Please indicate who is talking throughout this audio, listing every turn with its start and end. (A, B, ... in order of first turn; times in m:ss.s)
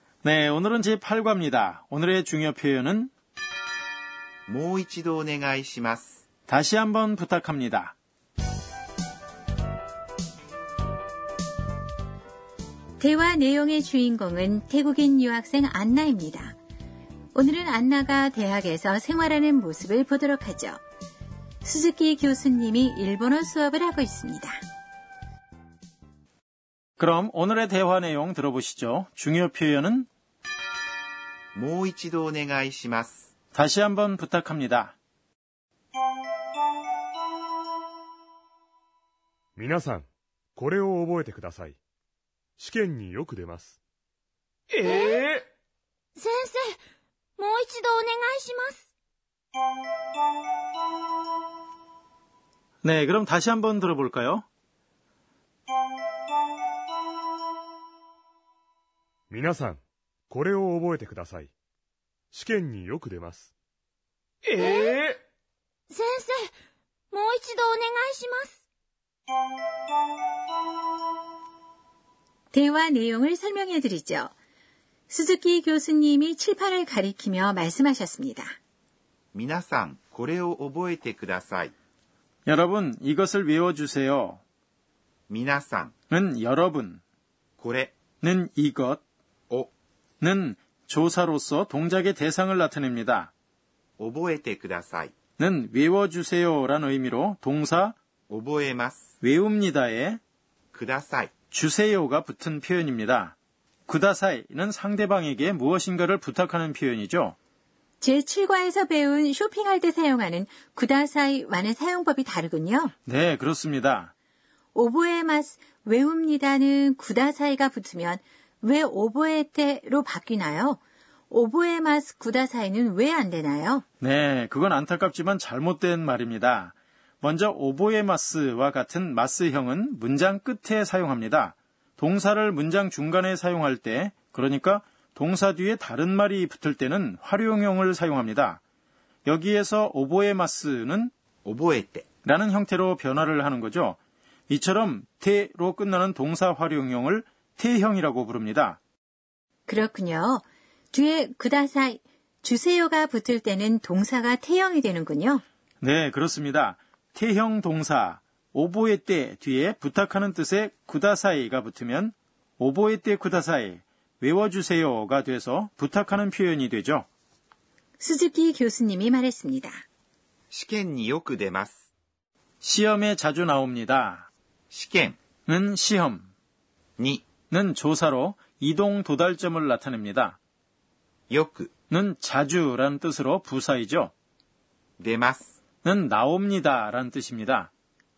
0:00.2-0:03.1 A
0:04.5-0:06.2 B
0:06.5-0:08.0 A
0:13.0-0:16.6 C
0:17.3-0:20.8 C
0:21.6-0:24.6 C
0:27.0-0:30.1 A
0:31.5-0:33.3 B
0:33.5-0:34.9 A
0:39.6-0:41.8 D
0:42.6-0:43.8 D
0:44.7-0:45.4 E
0:46.2-0:46.8 E
0:47.4-0:48.8 E
0:52.8-0:54.4 A
0:59.3-1:01.5 D
1:02.3-1:03.5 D
1:04.5-1:05.1 E
1:05.9-1:06.5 E
1:07.1-1:08.6 E
1:12.5-1:14.3 C
1:15.1-1:18.5 C
1:19.3-1:21.7 B
1:22.5-1:24.4 A
1:25.3-1:25.9 B
1:26.1-1:27.0 A
1:27.6-1:27.9 B
1:28.3-1:29.0 A
1:30.2-1:33.3 A
1:34.0-1:35.1 B
1:35.4-1:38.0 A
1:38.3-1:39.1 B
1:39.3-1:40.2 A
1:40.7-1:41.3 B
1:41.7-1:43.3 A
1:43.9-1:47.3 A
1:48.0-1:52.9 C
1:53.0-1:54.1 A
1:54.7-2:03.8 C
2:04.0-2:18.6 A
2:19.2-2:21.1 A
2:21.4-2:22.0 B
2:22.2-2:24.0 A
2:24.5-2:28.8 A
2:29.7-2:35.4 C
2:35.8-2:47.1 A
2:48.0-2:49.8 C
2:50.5-2:51.8 B
2:52.6-2:54.3 A
2:54.7-2:55.2 B
2:55.5-2:56.3 A
2:57.0-2:57.2 B
2:57.5-3:00.4 A
3:01.3-3:01.7 B
3:01.9-3:04.1 A
3:05.0-3:05.6 B
3:05.8-3:07.7 A